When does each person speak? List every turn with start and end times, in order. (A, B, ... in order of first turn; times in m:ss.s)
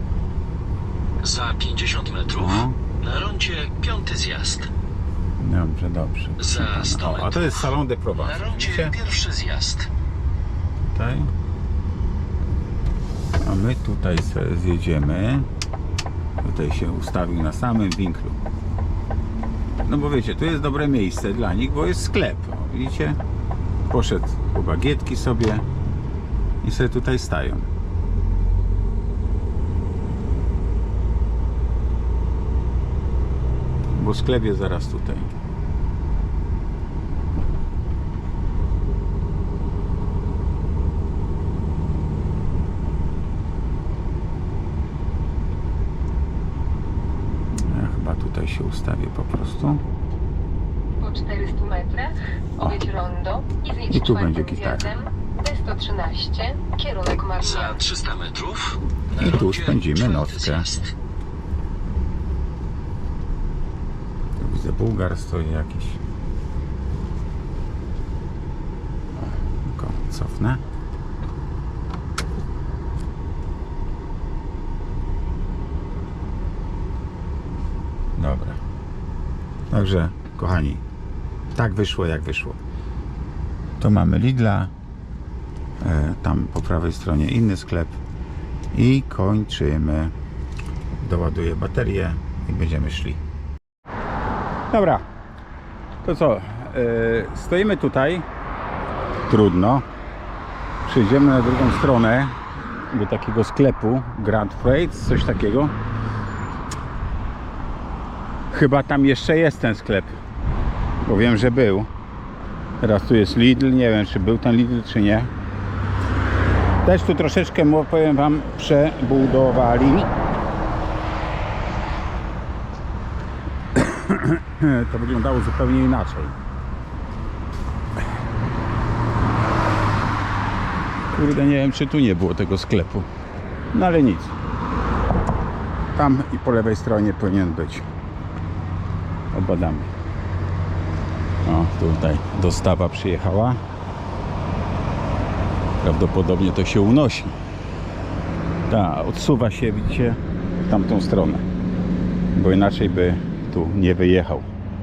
0:01.2-0:04.7 A
0:02.3-0:02.8 B
0:05.4-0:08.9 B
0:06.4-0:09.9 A
0:10.9-0:11.3 B
0:13.4-0:15.5 B
0:16.4-0:18.4 B
0:19.8-0:23.2 B
0:23.9-0:25.6 B
0:26.6-0:27.7 B
0:33.9-0:35.3 B
0:47.7-0:49.8 B
0:51.0-0:57.8 C
0:53.9-0:54.9 B
0:57.4-1:00.9 A
0:59.2-1:00.7 B
1:04.4-1:06.0 B
1:09.2-1:10.6 B
1:18.2-1:18.6 B
1:19.7-1:20.8 B
1:21.5-1:22.6 B
1:23.8-1:24.7 B
1:25.8-1:28.0 B
1:28.7-1:30.1 B
1:31.0-1:33.2 B
1:34.7-1:35.0 B
1:36.0-1:38.2 B
1:39.2-1:39.8 B
1:40.8-1:45.7 B
1:48.5-1:50.1 B
1:51.0-1:51.9 B
1:52.8-1:55.3 B
1:56.8-2:00.1 B
2:03.7-2:06.4 B
2:11.1-2:13.1 B
2:13.7-2:14.3 B
2:15.9-2:17.8 B
2:19.3-2:19.9 B
2:21.4-2:23.6 B
2:25.8-2:27.3 B
2:28.7-2:31.4 B
2:32.3-2:34.5 B